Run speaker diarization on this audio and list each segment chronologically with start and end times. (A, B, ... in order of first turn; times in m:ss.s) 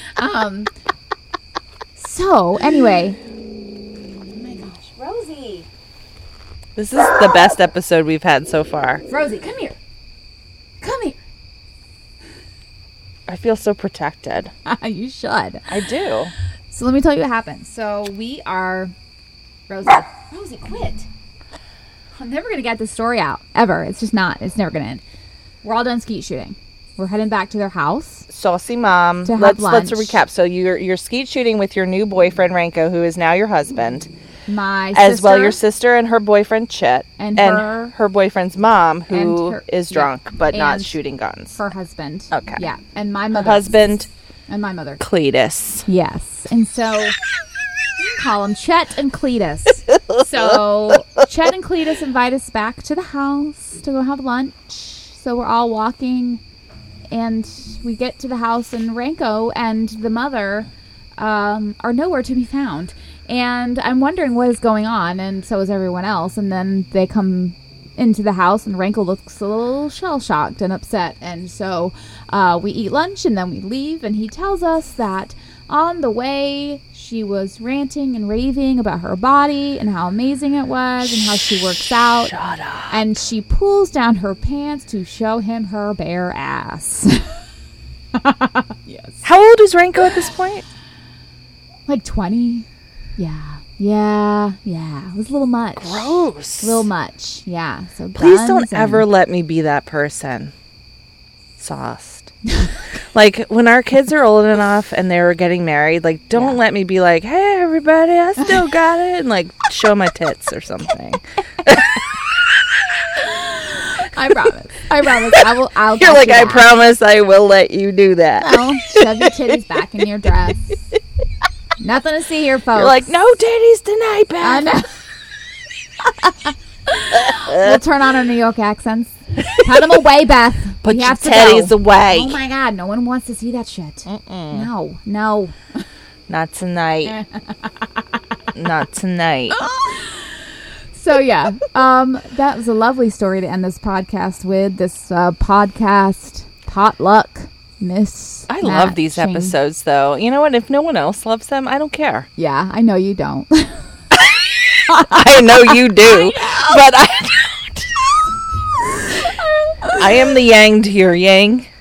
0:00.2-0:00.7 A
0:02.0-0:03.2 A
0:04.3-0:05.7 A
0:06.8-0:09.0 B
0:09.1-0:09.8 A
0:10.8-0:11.2 A
0:13.3-0:14.5 B
0:14.6-0:15.7 A
0:15.7-0:16.3 B
0:16.7-0:18.9 A
0:19.7-0:21.0 A
0:22.2-0:25.0 A
0:25.6-0:28.3 A
0:28.3-0:34.1 B
0:29.2-0:30.2 A
0:34.5-0:35.6 A
0:34.9-0:41.6 B
0:37.2-0:37.9 A
0:39.1-0:40.9 A
0:41.5-0:43.8 A
0:42.3-0:42.6 B
0:43.3-0:44.1 B
0:44.5-0:45.0 A
0:45.0-0:45.8 B
0:45.9-0:47.2 A
0:48.0-0:56.4 A
0:57.1-1:22.4 A
1:21.1-1:23.0 B
1:22.9-1:27.2 A
1:28.1-1:29.2 A
1:29.2-1:30.6 B
1:31.9-1:32.6 A
1:33.2-1:39.0 A
1:35.8-1:36.9 B
1:38.2-1:40.5 B
1:41.6-1:42.3 B
1:42.5-1:42.8 A
1:43.1-1:52.0 B
1:53.1-1:56.7 A
1:56.0-1:59.4 B
1:58.4-2:00.8 A
2:01.8-2:03.1 A
2:02.8-2:04.7 B
2:04.4-2:04.9 A
2:06.9-2:15.6 A
2:07.1-2:07.8 B
2:10.8-2:12.4 B
2:14.1-2:14.7 B
2:16.3-2:17.1 B
2:17.0-2:18.0 A
2:18.5-2:19.6 B
2:19.5-2:29.5 A
2:28.5-2:32.3 B
2:32.4-2:33.8 A
2:34.1-2:38.1 B
2:34.9-2:36.8 A
2:38.9-2:40.4 A
2:40.0-2:41.7 B